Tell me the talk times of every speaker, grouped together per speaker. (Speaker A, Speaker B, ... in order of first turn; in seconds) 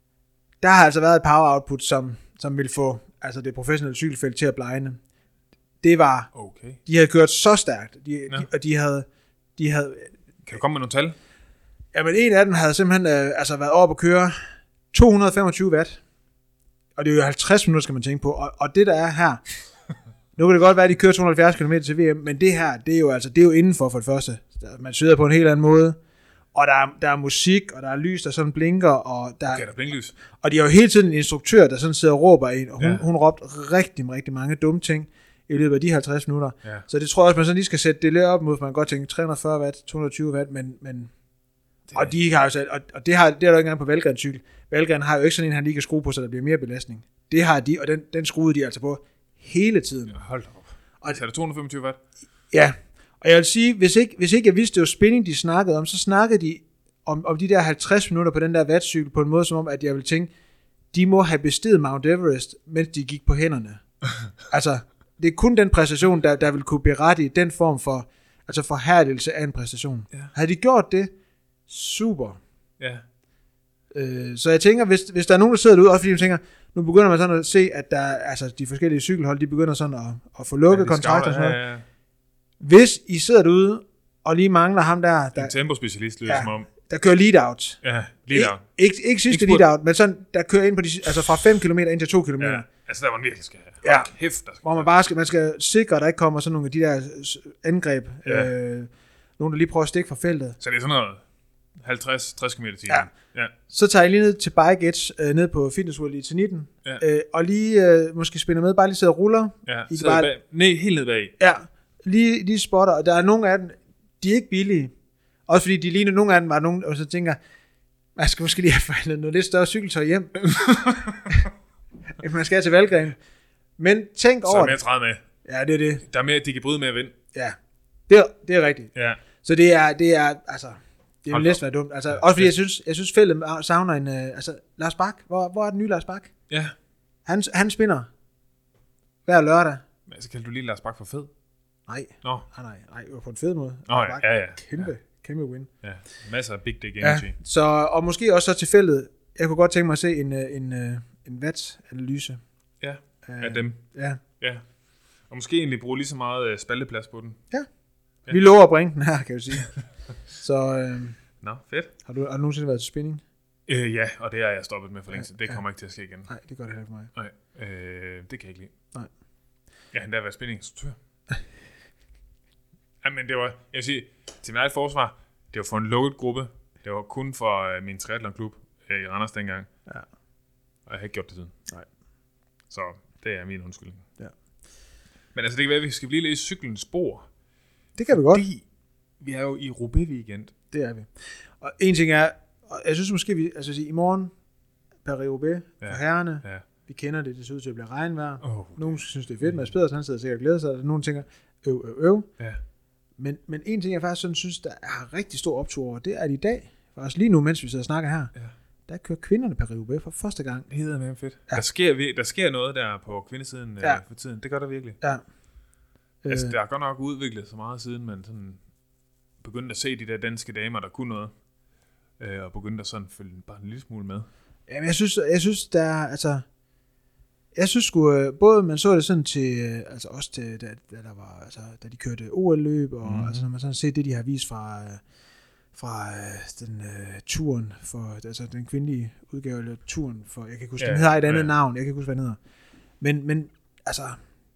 Speaker A: 0.6-5.0, 5.8-6.3, 6.8-9.1, 9.6-10.1, 11.9-14.3, 14.9-16.0, 17.0-19.4, 20.4-26.0, 26.5-29.6, 30.4-41.1, 41.9-50.2, 52.5-60.3, 60.9-63.8, 64.5-71.1, 71.7-72.4, 73.9-81.6, 82.6-85.5, 86.2-87.8, 88.3-92.7, 93.8-94.1, 94.6-100.6, 103.7-110.3, 111.4-114.9, 115.5-117.4, 118.2-120.8, 122.2-123.2, 123.8-124.8, 125.4-126.0, 128.1-136.3, 137.2-138.1, 139.2-139.8, 141.9-145.7, 147.0-152.4, 153.2-154.2, 158.3-159.7, 160.3-161.2, 162.0-163.2, 165.2-165.6, 166.3-167.1, 188.0-188.4, 190.7-194.3, 195.0-202.3, 203.2-208.3, 208.9-210.7, 216.2-216.5, 224.7-226.4, 227.5-235.0, 235.7-242.4, 243.0-244.2
Speaker B: 6.3-6.8, 10.4-11.2, 29.5-30.1, 32.8-33.0, 41.9-42.2, 50.1-52.0, 72.8-73.0, 80.7-81.8, 85.3-86.7, 87.8-88.6, 89.3-89.6, 92.4-94.9, 98.2-98.5, 100.6-101.2, 101.8-103.5, 109.7-111.3, 120.5-121.3, 124.4-125.2, 126.0-127.1, 128.9-129.2, 131.3-132.5, 136.5-136.7, 140.1-141.3, 143.9-144.9, 145.8-147.3, 152.8-153.8, 154.4-154.6, 155.3-157.4, 161.4-161.9, 163.7-166.3, 167.1-168.7, 169.9-171.0, 173.0-179.7, 180.8-181.5, 182.7-184.1, 185.3-187.3, 188.1-188.6, 189.2-190.5, 195.8-196.6, 198.4-199.7, 210.7-215.0, 216.3-218.6, 219.4-221.3, 222.2-224.3, 233.0-233.5, 240.8-241.5